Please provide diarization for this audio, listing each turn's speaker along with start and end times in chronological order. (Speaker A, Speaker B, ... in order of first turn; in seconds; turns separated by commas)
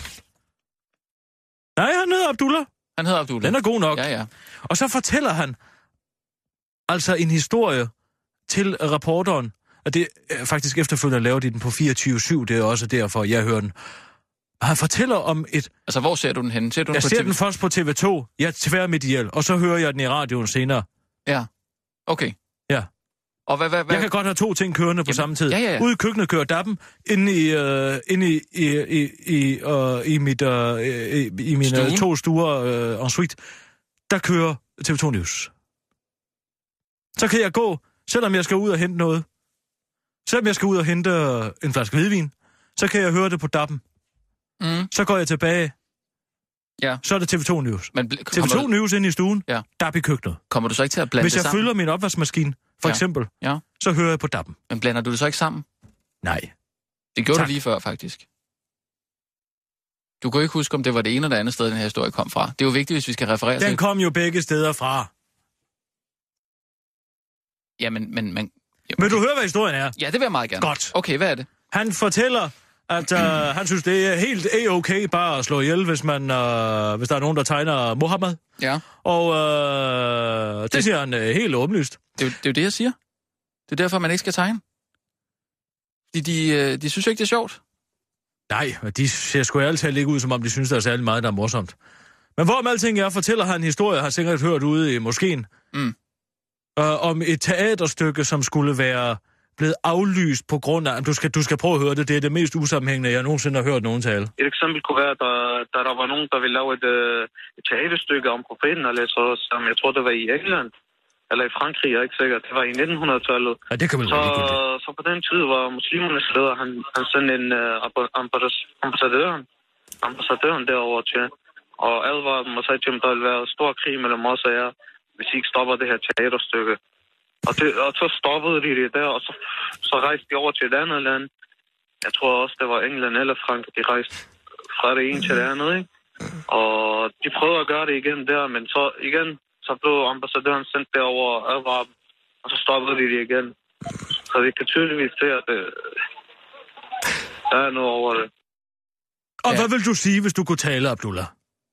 Speaker A: 1.8-2.7, Speaker B: 3.0-4.3, Speaker A: 3.4-4.1, Speaker A: 4.7-5.6, Speaker A: 6.9-7.9, Speaker A: 8.5-13.7, Speaker A: 14.6-15.7, Speaker B: 15.9-17.4, Speaker A: 16.9-20.9, Speaker B: 22.1-22.4, Speaker B: 23.5-24.1, Speaker A: 23.9-33.4, Speaker B: 25.1-25.9, Speaker B: 31.6-32.0, Speaker A: 34.1-35.5, Speaker A: 37.1-39.2, Speaker A: 40.2-43.8, Speaker B: 44.6-44.9, Speaker A: 44.9-45.7, Speaker A: 47.0-50.4, Speaker B: 47.9-48.7, Speaker B: 50.5-51.6, Speaker A: 51.2-54.6, Speaker B: 52.8-53.6, Speaker B: 54.7-55.6, Speaker A: 56.2-56.5, Speaker B: 57.1-58.2, Speaker B: 60.2-63.8, Speaker A: 63.6-65.1, Speaker B: 67.8-69.2, Speaker A: 69.0-70.0, Speaker B: 70.0-71.5, Speaker A: 70.6-70.9, Speaker A: 71.7-78.4, Speaker B: 78.6-78.8, Speaker A: 79.0-82.0, Speaker B: 82.2-83.0, Speaker B: 83.7-84.6, Speaker B: 86.1-87.6, Speaker A: 88.5-91.7, Speaker A: 92.3-95.5, Speaker A: 96.8-104.3, Speaker C: 104.4-110.7, Speaker C: 111.3-119.4, Speaker A: 113.7-114.6, Speaker C: 120.0-121.3, Speaker C: 121.8-126.8, Speaker C: 127.4-131.3, Speaker C: 132.0-134.1, Speaker C: 134.7-135.8, Speaker C: 136.5-141.9, Speaker C: 142.4-143.5, Speaker C: 144.3-145.8, Speaker C: 147.5-148.3, Speaker A: 149.4-151.3